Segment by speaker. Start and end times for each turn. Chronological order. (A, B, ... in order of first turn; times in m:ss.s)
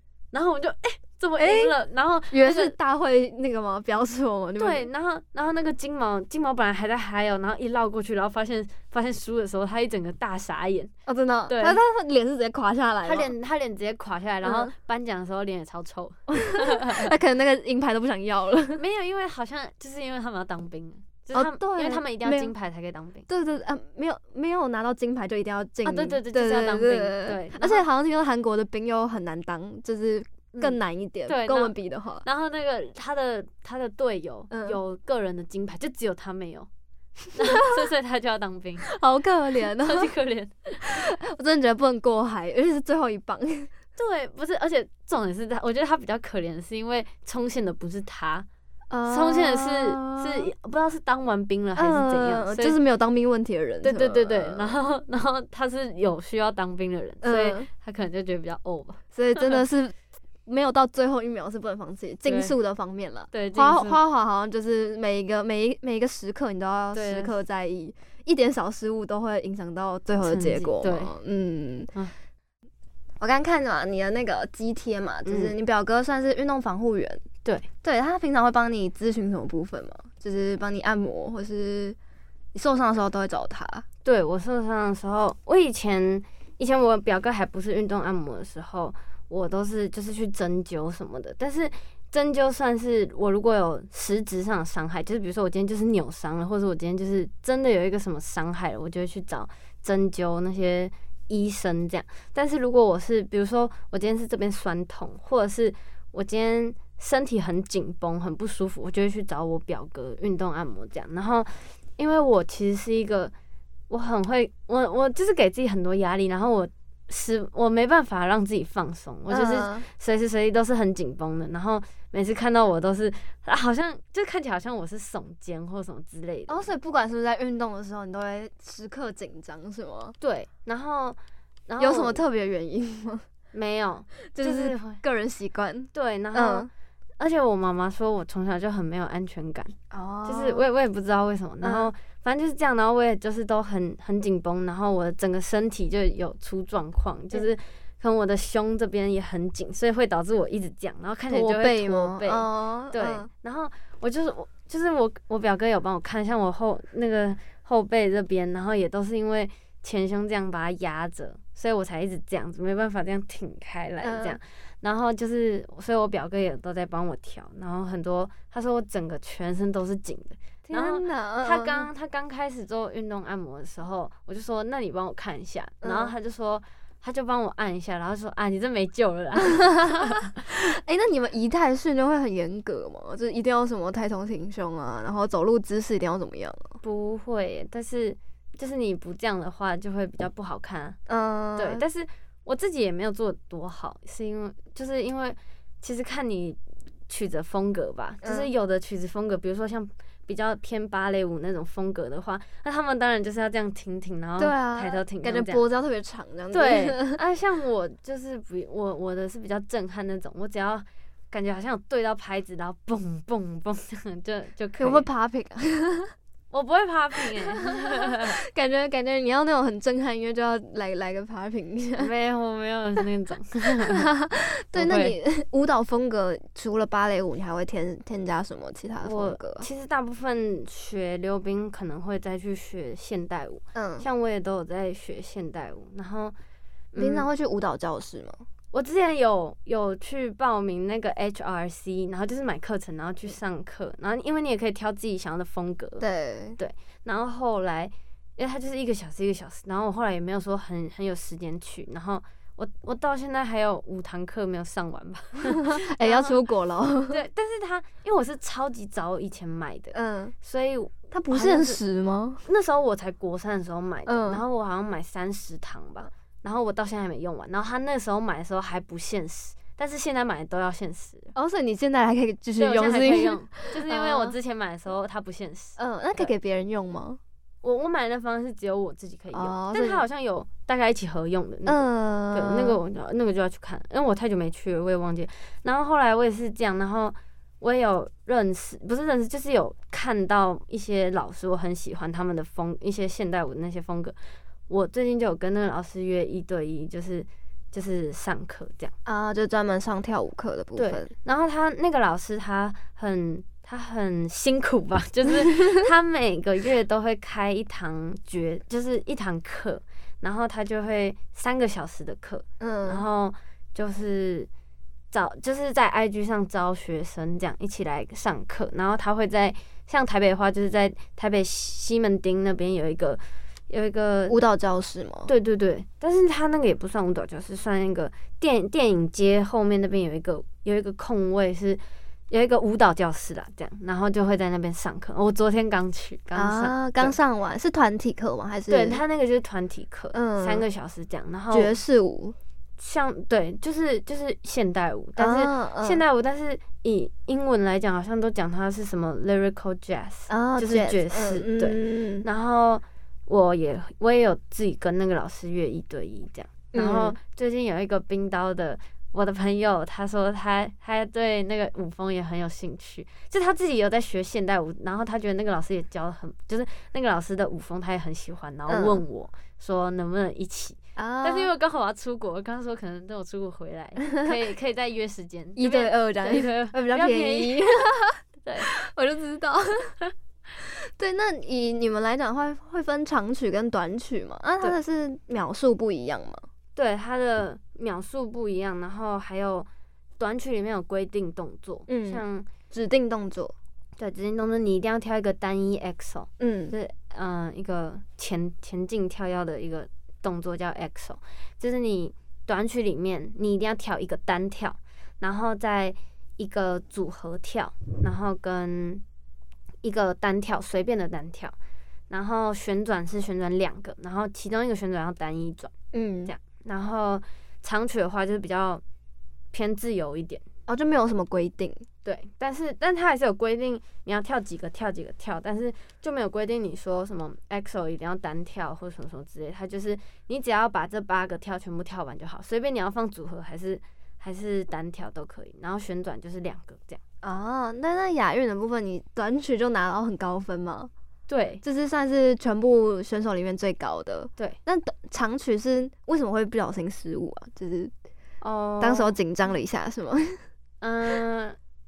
0:00.3-0:02.8 A
0:01.4-0:01.7 B
0:02.3-0:04.9 B
0:04.6-0:10.9 A
0:11.1-0:13.3 B
0:11.5-0:11.8 A
0:13.0-0:17.1 A
0:14.4-0:14.7 B
0:16.3-0:18.8 B
0:18.8-0:23.3 A
0:21.3-0:22.5 B
0:23.3-0:32.3 B
0:25.8-0:27.8 A
0:30.5-0:36.7 A
0:34.5-0:34.8 B
0:37.3-0:38.9 A
0:38.8-0:40.1 B
0:39.8-0:40.9 A
0:40.8-0:43.7 B
0:44.0-0:48.5 A
0:48.9-0:50.5 B
0:49.1-0:52.8 A
0:51.8-0:54.8 B
0:53.8-0:59.6 A
0:57.2-0:57.7 B
0:59.1-1:00.0 B
1:00.5-1:11.9 B
1:02.3-1:02.6 A
1:03.3-1:04.0 A
1:06.9-1:07.4 A
1:10.2-1:11.1 A
1:13.2-1:17.2 B
1:15.2-1:15.5 A
1:17.8-1:22.0 B
1:22.5-1:23.8 B
1:24.0-1:53.3 A
1:53.9-2:06.7 A
1:59.3-1:59.9 B
2:06.5-2:10.2 B
2:10.2-2:12.2 A
2:11.8-2:13.2 B
2:13.5-2:15.0 A
2:14.3-2:16.7 B
2:15.9-2:16.7 A
2:17.2-2:19.8 A
2:19.9-2:20.6 B
2:20.3-3:00.3 A
2:21.6-2:21.9 B
2:31.3-2:33.3 B
2:44.0-2:44.4 B
2:50.7-2:51.9 B
2:55.8-2:56.1 B
2:59.4-3:06.8 B
3:06.8-3:11.0 A
3:11.1-3:11.8 B
3:11.6-3:25.6 A
3:18.2-3:18.5 B
3:24.4-3:27.2 B
3:26.5-3:35.1 A
3:34.8-3:36.1 B
3:36.5-3:38.4 A
3:37.5-3:42.1 B
3:42.0-3:44.1 A
3:43.9-3:49.7 B
3:44.7-3:45.2 A
3:49.0-3:56.4 A
3:53.7-3:54.1 B
3:56.9-3:57.3 A
3:57.0-3:58.4 B
3:58.7-4:06.0 A
4:06.0-4:06.6 B
4:06.6-4:16.4 A
4:15.5-4:17.2 B
4:17.1-4:21.8 A
4:19.9-4:20.3 B
4:21.1-4:22.4 B
4:22.4-4:31.3 A
4:24.1-4:24.4 B
4:31.4-4:34.4 B
4:32.6-4:36.3 A
4:35.8-4:37.2 B
4:37.6-4:54.2 A
4:39.3-4:40.0 B
4:41.7-4:42.8 B
4:54.7-4:58.9 A
4:59.1-5:01.1 B
5:00.8-5:14.5 A
5:12.6-5:13.0 B
5:15.1-5:24.4 A
5:24.3-5:25.3 B
5:25.3-5:37.2 A
5:36.4-5:39.0 B
5:38.7-5:41.8 A
5:40.1-5:40.6 B
5:41.5-5:42.4 B
5:42.8-6:17.8 A
5:45.2-5:46.0 B
5:50.3-5:52.3 B
5:56.7-5:57.2 B
6:08.7-6:09.0 B
6:11.0-6:11.5 B
6:15.6-6:20.0 B
6:18.4-6:18.7 A
6:20.6-6:26.4 B
6:26.8-6:29.7 A
6:30.2-6:32.5 A
6:31.9-6:33.5 B
6:34.0-6:49.0 A
6:36.4-6:36.8 B
6:49.8-6:51.6 A
6:52.1-6:55.7 A
6:55.9-6:56.3 B
6:56.3-6:58.8 A
6:59.5-7:00.4 A
7:00.7-7:01.8 B
7:02.0-7:17.0 A
7:17.2-7:20.9 B
7:21.3-7:21.6 A
7:21.6-7:27.9 B
7:28.4-7:29.2 A
7:28.8-7:30.4 B
7:30.8-7:31.6 A